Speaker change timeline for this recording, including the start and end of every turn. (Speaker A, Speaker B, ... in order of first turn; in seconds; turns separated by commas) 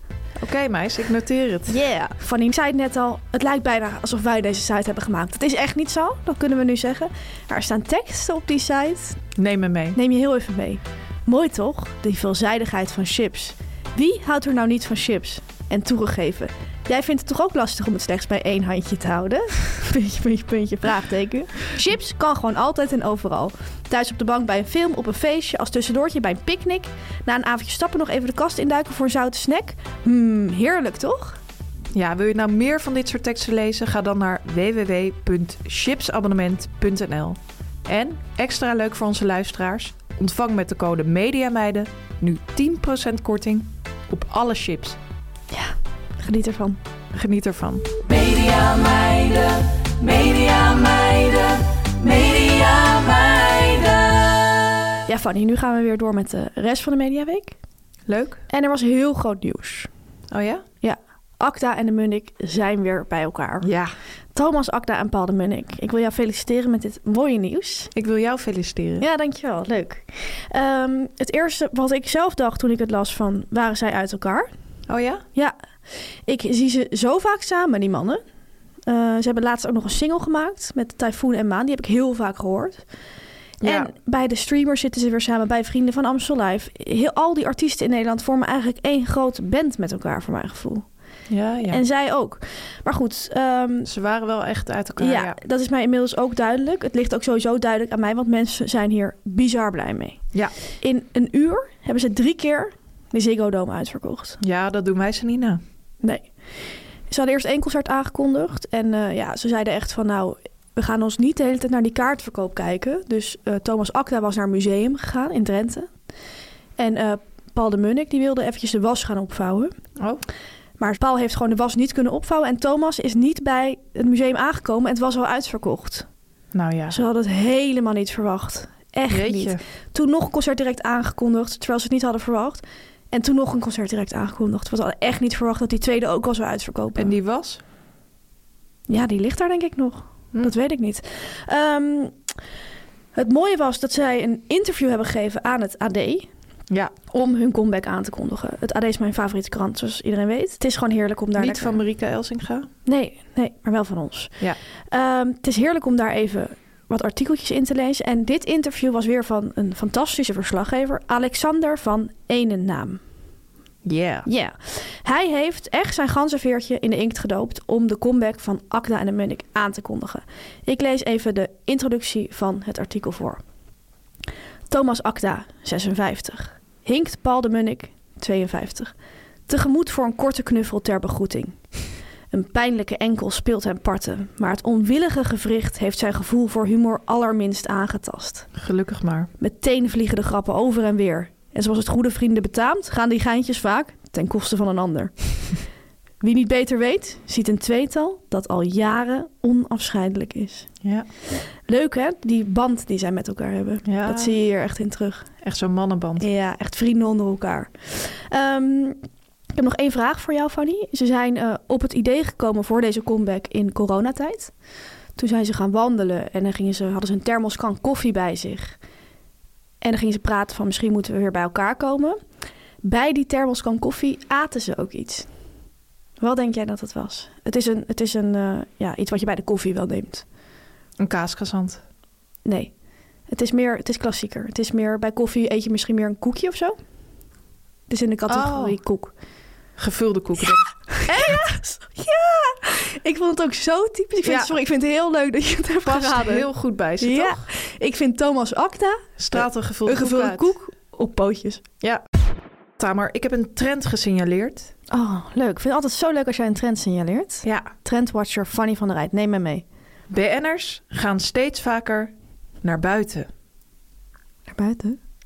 Speaker A: 0.4-1.8, Speaker B: 1.7-9.2, Speaker A: 9.4-10.0, Speaker B: 9.9-31.4, Speaker A: 31.9-45.0, Speaker B: 45.5-46.8, Speaker A: 47.1-47.9, Speaker C: 48.0-54.4, Speaker B: 55.1-57.5, Speaker A: 58.1-58.4, Speaker B: 58.5-59.9, Speaker A: 60.3-60.6, Speaker B: 60.8-63.7, Speaker A: 63.6-63.9, Speaker B: 64.3-67.9, Speaker A: 67.9-69.0, Speaker B: 69.0-74.5, Speaker A: 74.9-75.2, Speaker B: 76.3-78.2, Speaker B: 78.9-82.8, Speaker B: 83.6-90.9, Speaker A: 83.6-83.9, Speaker A: 91.3-91.8, Speaker B: 91.7-93.9, Speaker A: 93.9-95.4, Speaker B: 95.0-100.2, Speaker B: 100.8-104.4, Speaker A: 104.4-105.6, Speaker B: 106.0-115.9, Speaker B: 116.8-119.7, Speaker A: 120.0-120.2, Speaker B: 120.8-126.1, Speaker A: 126.5-127.0, Speaker B: 126.9-137.1, Speaker A: 129.1-129.6, Speaker A: 136.9-137.6, Speaker B: 138.9-142.2, Speaker B: 143.1-146.3, Speaker B: 147.1-151.8, Speaker A: 151.4-152.7, Speaker B: 152.9-154.4, Speaker B: 154.9-163.0, Speaker A: 163.8-164.3, Speaker B: 164.3-173.4, Speaker B: 174.7-178.9, Speaker B: 179.5-181.8, Speaker B: 182.3-188.5, Speaker A: 188.6-189.3, Speaker B: 189.4-195.5, Speaker B: 196.2-200.7, Speaker B: 201.7-205.3, Speaker A: 203.9-204.3, Speaker A: 205.4-206.3, Speaker B: 206.2-209.0, Speaker B: 209.6-214.5, Speaker B: 215.2-218.8, Speaker B: 219.8-222.2, Speaker B: 222.8-225.3, Speaker B: 226.2-230.2, Speaker A: 231.0-231.8, Speaker B: 232.4-232.7, Speaker B: 233.3-236.8, Speaker B: 237.9-239.1, Speaker A: 238.3-238.8, Speaker A: 239.8-241.5, Speaker B: 240.9-246.4, Speaker A: 244.2-244.5, Speaker A: 245.8-247.4, Speaker B: 247.0-251.6, Speaker A: 249.2-250.5, Speaker A: 252.8-254.7, Speaker B: 254.9-259.6, Speaker A: 257.4-257.7, Speaker A: 260.1-263.3, Speaker B: 264.5-265.0